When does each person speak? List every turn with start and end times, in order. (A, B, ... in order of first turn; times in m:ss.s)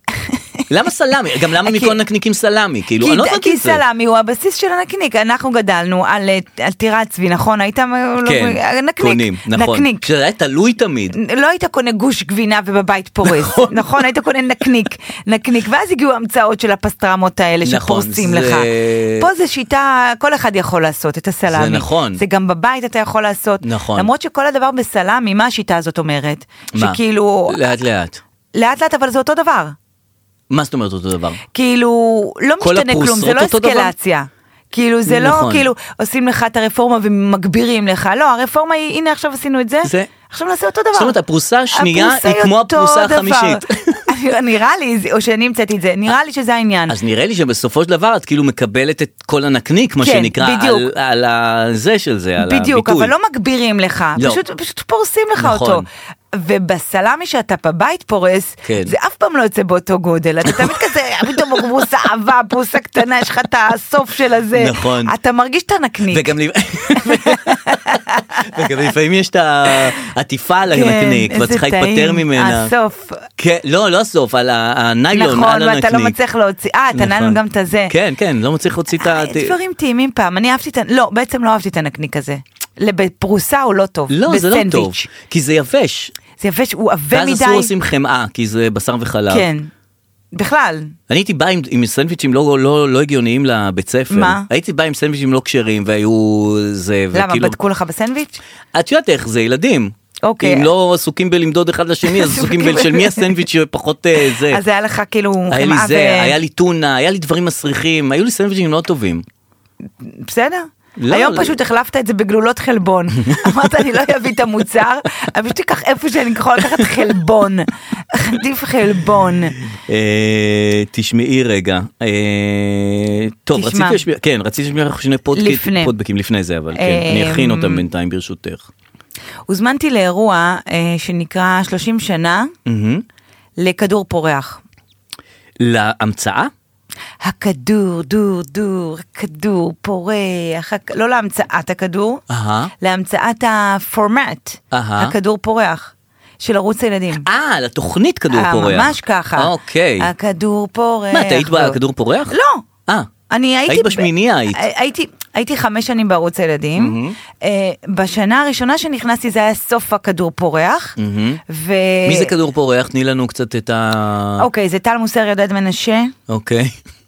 0:00.7-0:03.8 A
0:01.6-0:02.0 B
0:03.0-0:10.0 B
0:08.2-0:11.2 A
0:11.1-0:27.6 B
0:13.2-0:13.9 A
0:17.6-0:19.3 A
0:21.5-0:22.2 A
0:23.6-0:24.1 A
0:26.7-0:28.2 A
0:28.5-0:29.7 B
0:30.5-0:31.4 A
0:31.5-0:41.2 B
0:32.6-0:33.9 A
0:35.1-0:35.7 A
0:39.8-0:40.1 A
0:40.9-0:44.0 A
0:41.7-0:47.0 B
0:46.9-0:53.1 A
0:50.0-0:50.9 B
0:52.4-1:06.3 B
0:55.4-0:55.8 A
0:58.6-0:58.9 A
1:00.4-1:00.8 A
1:04.5-1:05.1 A
1:06.1-1:12.7 A
1:07.0-1:08.4 B
1:10.7-1:13.3 B
1:13.4-1:16.2 A
1:15.1-1:17.9 B
1:16.9-1:19.6 A
1:19.0-1:25.1 B
1:24.1-1:26.1 A
1:26.4-1:27.7 B
1:27.1-1:29.5 A
1:29.3-1:29.7 B
1:30.3-1:30.9 B
1:31.1-1:37.6 A
1:34.1-1:34.4 B
1:37.1-1:38.4 B
1:38.7-1:44.6 A
1:40.2-1:40.7 B
1:42.0-1:43.3 B
1:44.5-1:46.4 B
1:45.5-1:49.2 A
1:50.0-1:59.6 B
1:51.0-1:51.6 A
1:53.2-1:53.6 A
1:59.7-2:08.7 A
2:03.5-2:04.0 B
2:05.4-2:05.9 B
2:06.7-2:07.8 B
2:09.5-2:12.5 B
2:12.6-2:13.0 A
2:13.6-2:14.6 B
2:15.6-2:16.5 A
2:17.2-2:22.2 B
2:22.3-2:22.7 A
2:22.8-2:27.2 B
2:24.7-2:25.1 A
2:27.2-2:30.1 A
2:28.3-2:31.8 B
2:31.1-2:32.4 A
2:32.3-2:32.6 B
2:33.3-2:41.0 B
2:33.7-2:34.6 A
2:36.8-2:37.2 A
2:41.0-2:41.4 A
2:41.5-2:42.3 B
2:42.0-2:44.5 A
2:44.4-2:46.1 B
2:46.3-2:46.8 A